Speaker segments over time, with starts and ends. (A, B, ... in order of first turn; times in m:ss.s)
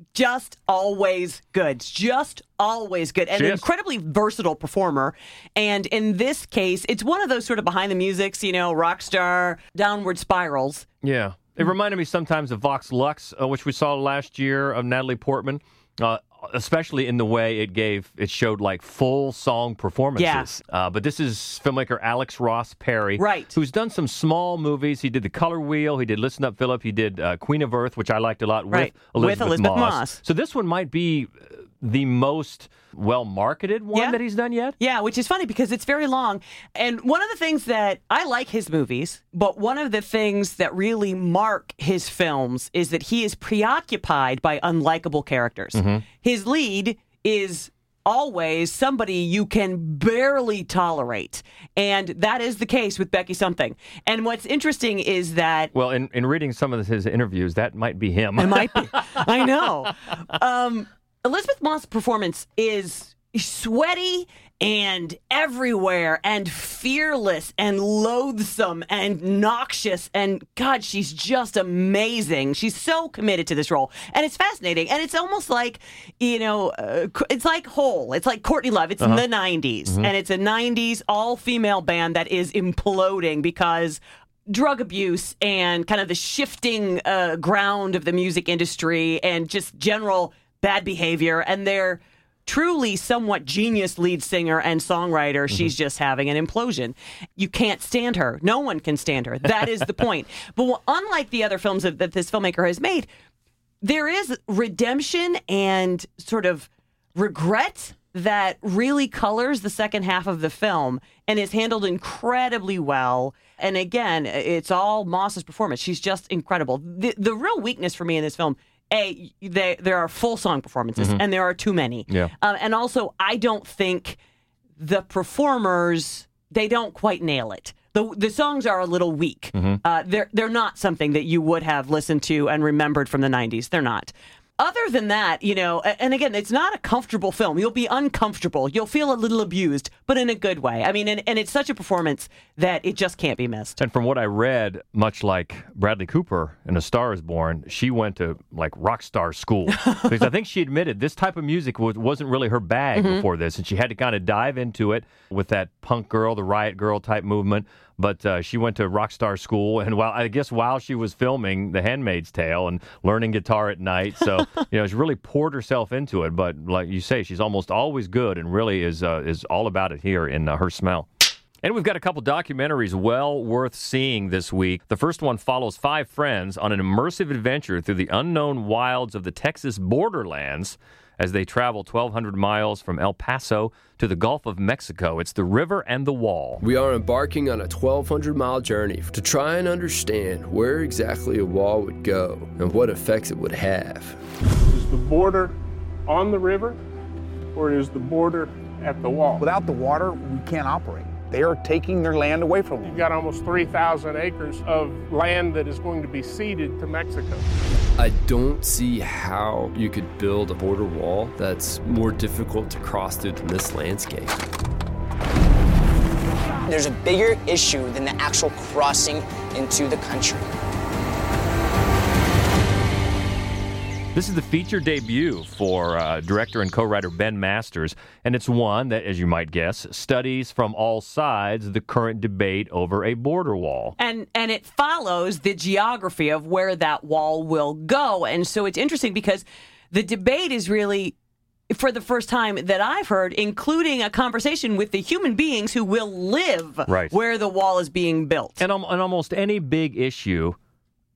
0:00.1-0:10.8 A
0:03.3-0:03.6 B
0:11.0-0:34.8 B
0:20.2-0:20.5 A
0:23.2-0:23.5 A
0:28.7-0:30.2 A
0:33.9-0:34.2 A
0:34.8-0:55.7 A
0:45.7-0:46.0 B
0:55.7-0:59.2 B
0:58.4-1:43.1 A
1:43.8-2:04.2 A
2:01.0-2:01.2 B
2:04.8-2:23.8 A
2:09.5-2:09.8 B
2:23.8-2:51.1 B
2:29.8-2:30.1 A
2:32.9-2:33.2 A
2:51.6-3:06.6 B
3:06.6-3:14.2 C
3:14.7-3:15.5 D
3:16.1-3:16.8 D
3:17.5-3:19.5 D
3:19.4-3:23.0 E
3:22.8-3:27.4 D
3:28.0-3:34.4 C
3:36.6-3:40.5 F
3:44.1-3:53.9 B
3:54.0-4:01.2 A
4:01.7-4:08.6 A
4:06.9-4:07.1 B
4:08.6-4:10.6 B